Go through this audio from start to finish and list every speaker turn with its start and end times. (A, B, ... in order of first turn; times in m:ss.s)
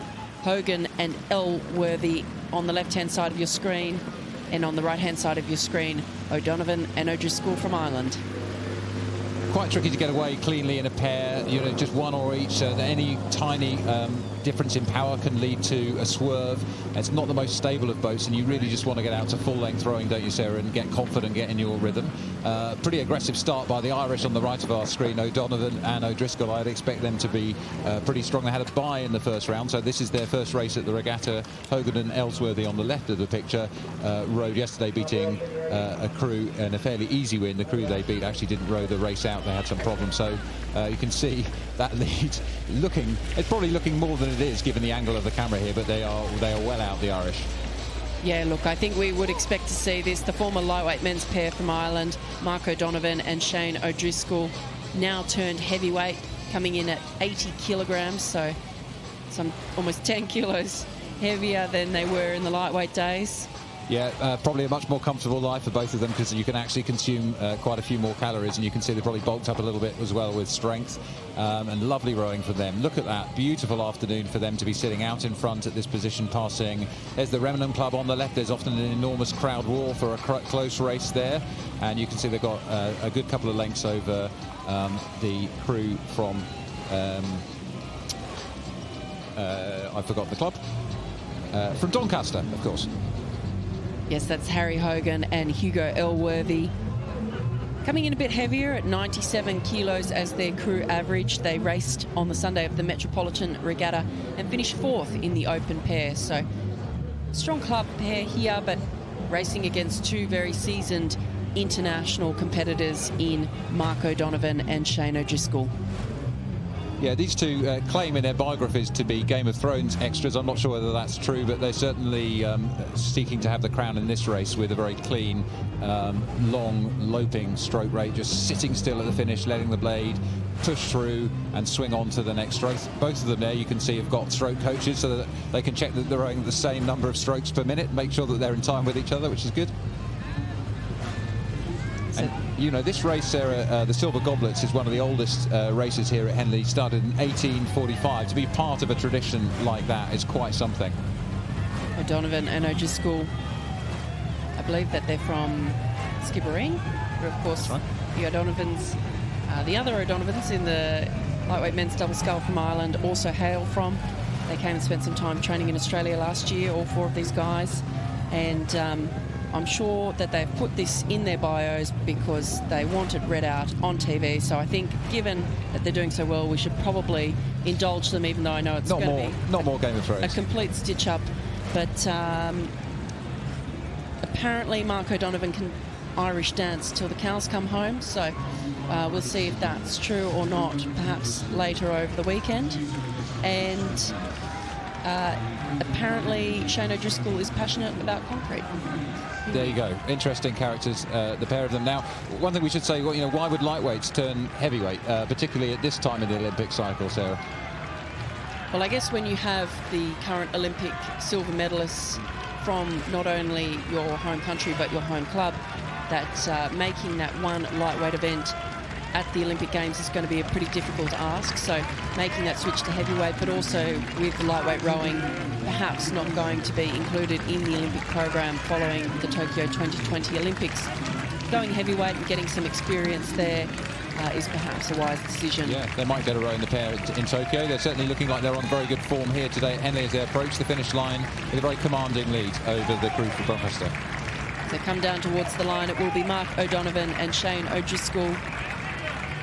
0:00.4-0:08.2 A
0:09.5-0:47.5 B
0:48.2-0:58.5 A
0:59.3-1:03.5 A
1:03.9-1:27.4 B
1:29.4-1:30.6 B
1:31.5-1:32.9 B
1:34.1-1:36.7 A
1:37.8-1:46.4 A
1:47.3-1:55.7 A
1:57.0-2:19.7 B
2:22.2-2:31.0 B
2:32.0-2:33.3 A
2:34.6-2:59.6 A
2:58.8-3:00.4 B
3:00.2-3:02.7 A
3:04.2-3:08.3 A
3:08.9-3:12.8 A
3:13.4-3:14.1 A
3:15.0-3:18.8 A
3:19.5-3:27.4 B
3:28.7-3:38.6 A
3:39.1-3:50.9 A
3:51.5-3:55.8 A
3:55.6-4:03.9 B
4:04.7-4:08.4 A